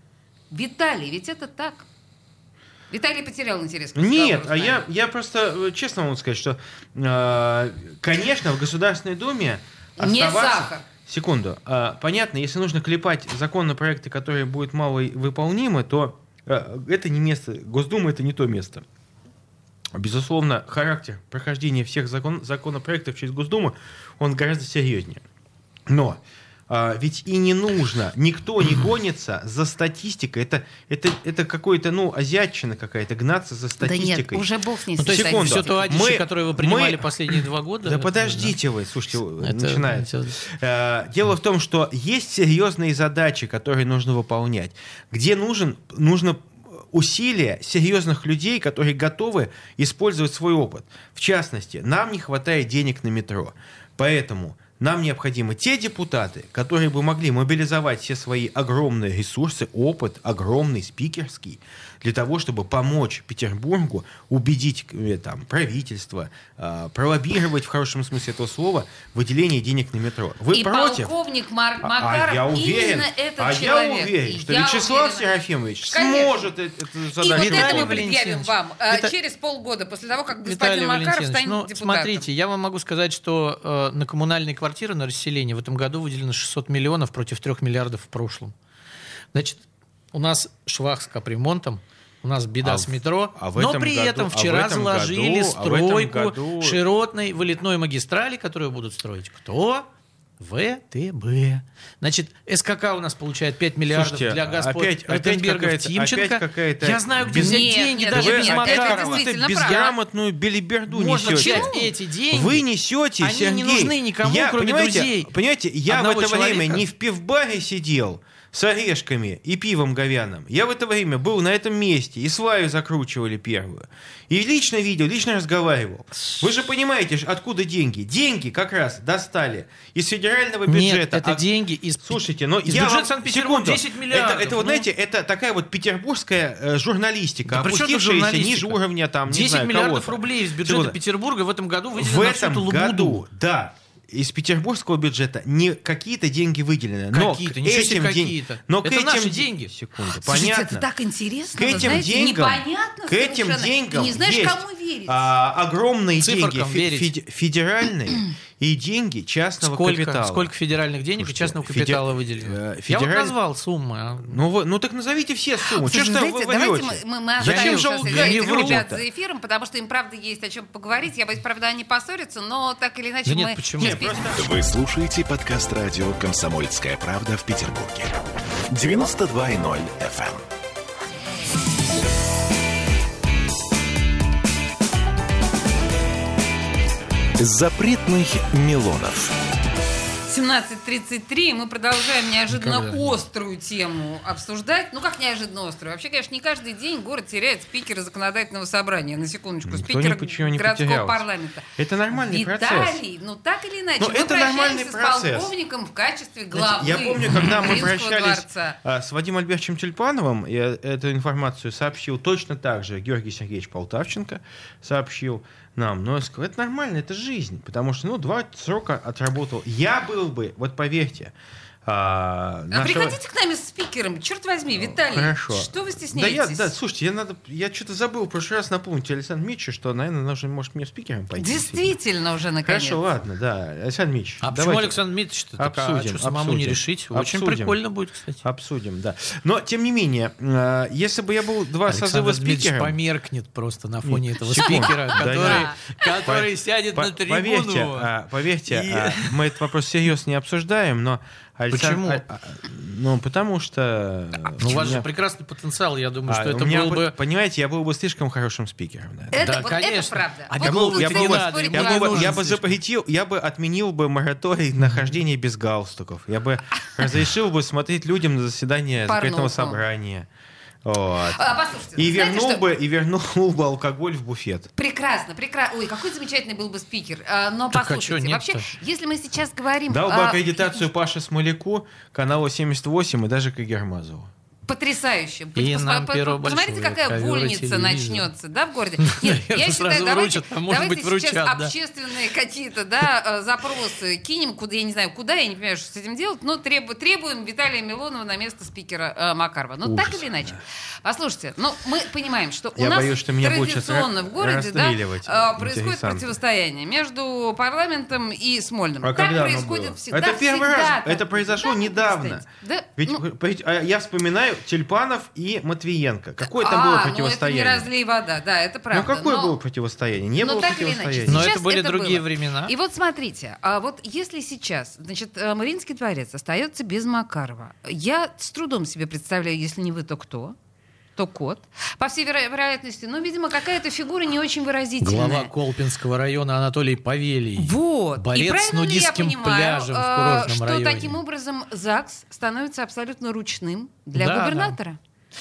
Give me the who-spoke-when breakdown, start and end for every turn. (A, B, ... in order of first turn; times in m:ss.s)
0:00.5-0:01.9 A
0:02.9-0:04.8 A
0:04.0-0:18.8 B
0:10.0-0:10.9 A
0:19.9-0:25.2 B
0:25.9-0:34.5 B
0:33.8-0:35.8 A
0:35.0-0:38.6 C
0:35.1-1:11.1 B
0:39.4-0:40.4 C
1:10.5-1:15.3 A
1:11.8-1:18.0 B
1:15.9-1:16.5 A
1:17.2-1:22.3 A
1:17.3-1:19.1 C
1:20.4-1:28.5 C
1:29.3-1:29.6 C
1:30.1-1:39.9 C
1:32.6-1:36.8 B
1:40.4-1:49.2 C
1:43.9-1:51.7 B
1:47.3-1:50.0 A
1:50.9-1:52.6 C
1:51.2-1:51.9 A
1:52.3-2:11.4 B
1:53.2-1:55.3 C
1:55.9-1:56.8 C
2:10.7-2:14.9 C
2:12.0-2:21.0 B
2:17.5-2:23.2 C
2:22.0-2:30.9 B
2:27.1-2:29.7 C
2:30.1-2:35.3 A
2:31.5-2:40.5 B
2:36.2-2:37.1 C
2:39.6-2:44.4 C
2:41.2-2:43.4 B
2:44.2-2:49.0 B
2:45.6-2:54.2 A
2:47.4-2:48.9 C
2:53.3-2:54.1 C
2:53.8-2:54.5 B
2:54.3-2:58.2 D
2:58.7-3:00.4 D
3:07.4-3:09.4 D
3:10.3-3:28.8 A
3:12.5-3:13.1 C
3:19.6-3:23.0 B
3:24.0-3:25.5 B
3:26.5-3:41.3 B
3:41.8-3:43.2 B
3:42.7-3:46.8 A
3:44.7-3:52.0 B
3:51.4-3:53.0 A
3:52.6-3:55.0 B
3:54.4-3:58.4 C
3:55.6-3:57.8 B
3:58.4-4:03.0 B
4:01.9-4:08.1 C
4:04.0-4:15.1 B
4:04.6-4:05.8 A
4:08.7-4:09.6 C
4:11.7-4:12.2 C
4:14.6-4:17.1 C
4:16.3-4:19.4 B
4:19.3-4:22.4 A
4:19.4-4:22.8 C
4:20.6-4:30.3 B
4:29.1-4:29.8 A
4:30.8-4:34.7 B
4:31.2-4:32.6 A
4:34.8-4:40.8 A
4:37.7-4:38.8 C
4:39.9-4:44.3 B
4:44.7-5:13.2 A
4:45.6-4:48.3 C
4:49.0-4:51.7 C
4:59.8-5:00.4 B
5:02.8-5:06.4 B
5:09.0-5:12.4 B
5:13.0-5:17.9 B
5:16.4-5:19.6 A
5:18.9-5:21.5 B
5:20.4-5:30.6 A
5:21.3-5:22.7 C
5:31.2-5:35.5 A
5:35.0-5:41.2 C
5:37.6-5:45.0 A
5:44.1-5:44.8 C